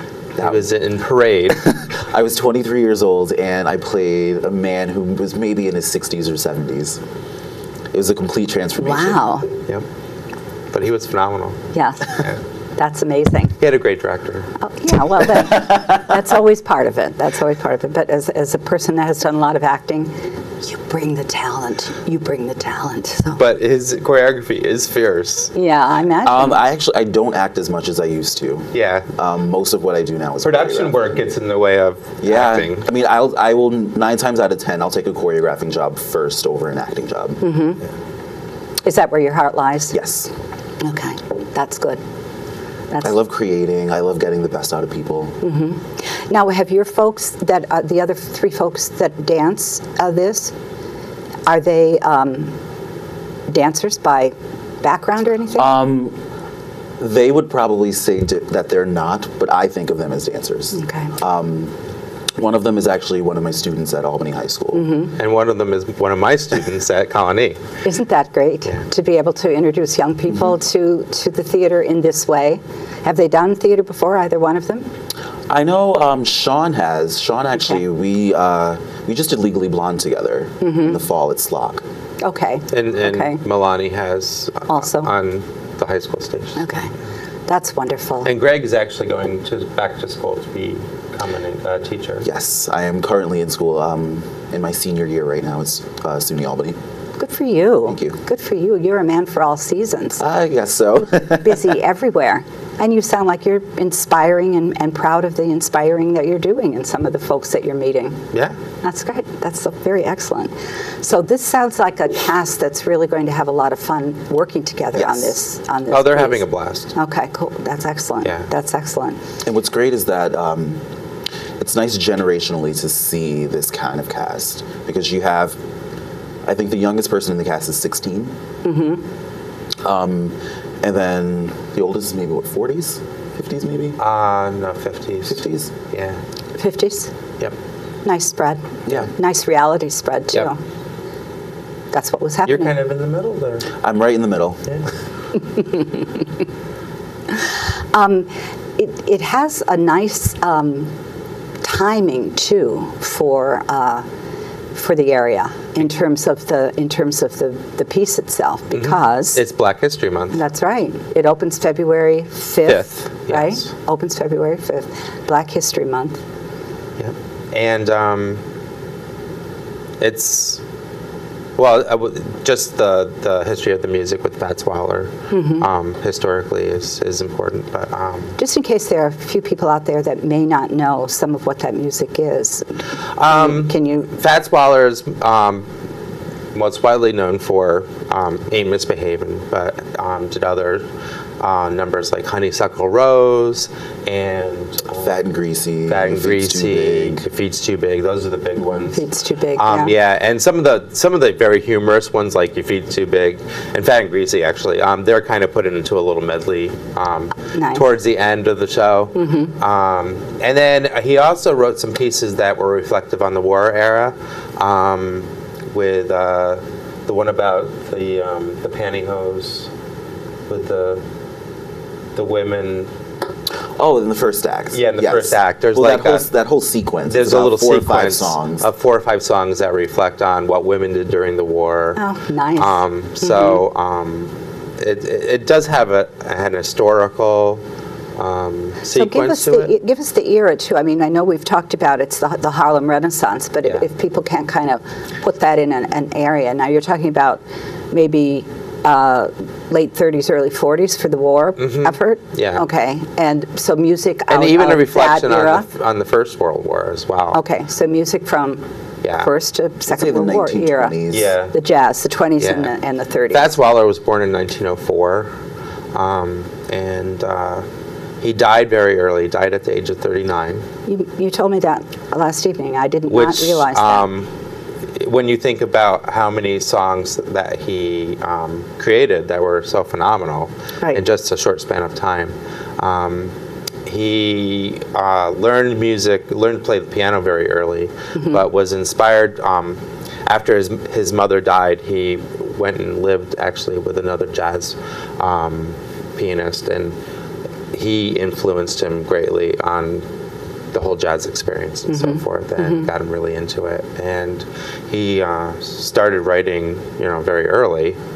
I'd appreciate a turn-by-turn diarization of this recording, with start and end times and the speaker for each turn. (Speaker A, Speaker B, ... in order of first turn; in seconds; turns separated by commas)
Speaker A: 0.4-0.7, Speaker B: 0.4-1.8, Speaker A: 1.6-7.0, Speaker A: 7.9-9.3, Speaker C: 8.8-9.5, Speaker B: 10.7-12.4, Speaker C: 11.7-12.2, Speaker C: 12.8-13.5, Speaker B: 13.6-14.5, Speaker C: 14.6-23.4, Speaker B: 23.4-25.5, Speaker C: 25.5-26.6, Speaker A: 26.2-31.0, Speaker B: 28.7-29.1, Speaker B: 30.4-32.9, Speaker A: 32.2-37.4, Speaker C: 37.4-37.8, Speaker C: 38.9-40.0, Speaker A: 39.9-40.3, Speaker C: 40.8-42.0, Speaker A: 43.0-45.4, Speaker C: 45.4-50.5, Speaker C: 51.5-52.5, Speaker C: 53.5-55.7, Speaker A: 55.5-56.2, Speaker A: 57.0-61.7, Speaker C: 60.8-61.1, Speaker A: 62.4-64.9, Speaker C: 64.7-65.1, Speaker B: 65.2-67.7, Speaker C: 67.8-74.9, Speaker A: 75.5-81.8, Speaker C: 80.6-81.0, Speaker C: 82.2-83.4, Speaker B: 82.7-86.8, Speaker C: 84.7-85.1, Speaker C: 86.6-86.9, Speaker C: 87.5-88.3, Speaker B: 88.2-92.3, Speaker A: 92.2-96.8, Speaker C: 97.2-100.2, Speaker A: 97.9-98.2, Speaker A: 100.2-101.7, Speaker C: 101.2-108.2, Speaker C: 108.8-116.4, Speaker A: 114.9-115.4, Speaker B: 115.9-116.9, Speaker C: 117.0-119.2, Speaker A: 119.4-120.8, Speaker A: 121.6-125.6, Speaker A: 126.5-128.3, Speaker C: 128.7-129.0, Speaker A: 129.8-134.0, Speaker B: 134.0-136.2, Speaker A: 135.3-135.7, Speaker C: 136.6-137.1, Speaker C: 138.0-140.6, Speaker C: 141.9-142.8, Speaker B: 142.5-143.7, Speaker A: 143.7-144.6, Speaker C: 145.5-146.1, Speaker C: 147.3-150.9, Speaker C: 151.6-154.1, Speaker C: 154.7-159.4, Speaker B: 158.8-160.4, Speaker C: 160.3-166.2, Speaker B: 162.7-163.7, Speaker B: 167.0-168.4, Speaker B: 170.0-170.6, Speaker B: 171.6-178.4, Speaker C: 175.3-175.7, Speaker C: 178.4-184.1, Speaker B: 183.2-185.7, Speaker B: 186.5-190.9, Speaker B: 191.4-195.2, Speaker A: 195.0-197.2, Speaker B: 195.9-199.0, Speaker C: 198.9-199.9, Speaker B: 199.6-219.7, Speaker C: 207.6-207.8, Speaker C: 209.2-209.5, Speaker B: 220.5-221.0, Speaker B: 222.2-222.9, Speaker A: 223.8-228.7, Speaker B: 224.7-226.3, Speaker B: 227.1-232.0, Speaker C: 232.0-233.6, Speaker B: 232.6-237.6, Speaker B: 238.2-239.7, Speaker C: 238.9-255.7, Speaker B: 251.6-252.6, Speaker B: 254.3-257.4, Speaker C: 257.3-258.6, Speaker B: 259.0-259.3, Speaker C: 259.2-260.9, Speaker A: 259.9-261.4, Speaker B: 261.1-261.6, Speaker C: 261.5-263.5, Speaker B: 262.4-262.7, Speaker B: 263.3-265.3, Speaker B: 265.9-267.6, Speaker B: 268.2-270.7, Speaker C: 270.9-274.1, Speaker B: 273.1-274.3, Speaker B: 275.0-283.3, Speaker B: 283.9-297.0, Speaker C: 288.1-288.4, Speaker B: 297.7-300.1, Speaker B: 300.7-308.0, Speaker C: 301.9-302.9